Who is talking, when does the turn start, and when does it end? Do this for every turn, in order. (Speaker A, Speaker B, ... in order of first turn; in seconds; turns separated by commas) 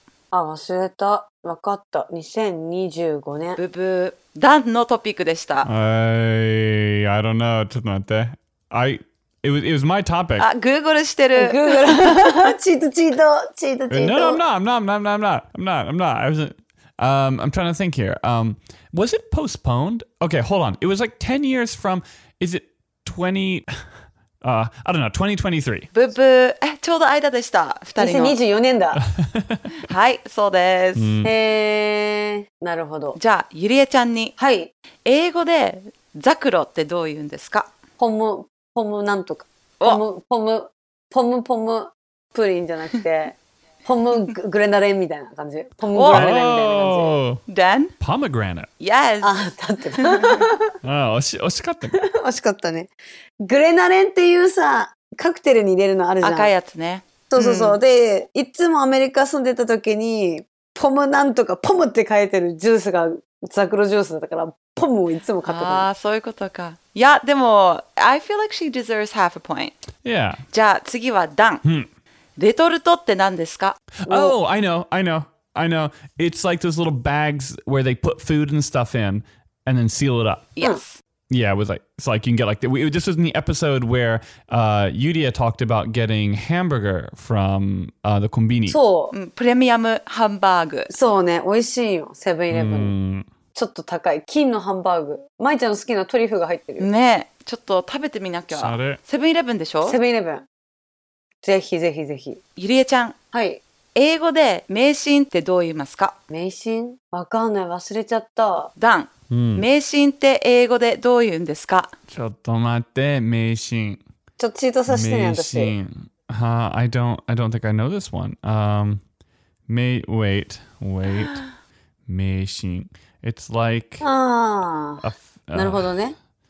Speaker A: 0.3-3.6, Speaker B: 3.6-5.7, Speaker C: 5.6-10.5, Speaker B: 10.4-12.4, Speaker A: 11.4-14.4, Speaker C: 13.9-23.7, Speaker C: 24.4-25.9, Speaker B: 25.9-28.4, Speaker A: 28.0-29.0, Speaker C: 29.2-29.6, Speaker B: 29.8-31.2, Speaker C: 31.0-31.3, Speaker A: 31.2-33.2, Speaker B: 33.1-34.4, Speaker A: 34.4-34.7, Speaker B: 35.0-37.7, Speaker A: 38.0-47.2, Speaker B: 45.9-46.4, Speaker C: 46.1-47.4, Speaker B: 47.5-47.9, Speaker C: 48.0-48.7, Speaker B: 48.8-49.4, Speaker A: 49.2-50.8, Speaker B: 50.0-50.4, Speaker C: 50.8-52.0, Speaker A: 51.9-52.9, Speaker A: 53.4-56.5, Speaker B: 56.2-57.8, Speaker A: 57.3-65.9, Speaker B: 65.5-69.8, Speaker C: 70.0-70.4, Speaker B: 70.5-71.6, Speaker B: 72.4-73.8, Speaker C: 74.0-80.5, Speaker A: 74.1-74.4, Speaker B: 80.6-81.0, Speaker C: 81.3-88.8, Speaker A: 88.7-89.1, Speaker B: 89.1-90.9, Speaker A: 90.9-92.9, Speaker C: 92.5-93.3, Speaker A: 93.5-96.9, Speaker B: 96.8-100.0, Speaker C: 98.5-99.0, Speaker A: 99.8-100.5, Speaker A: 101.4-102.4, Speaker B: 102.6-103.2, Speaker A: 103.3-103.6, Speaker B: 104.0-106.2, Speaker A: 106.3-108.7, Speaker B: 108.8-111.9, Speaker C: 109.3-109.7, Speaker C: 112.1-114.0, Speaker A: 114.4-115.7, Speaker C: 114.9-119.0, Speaker C: 119.7-121.4, Speaker C: 122.1-124.1, Speaker A: 124.0-125.0, Speaker C: 125.0-125.9, Speaker A: 125.5-126.2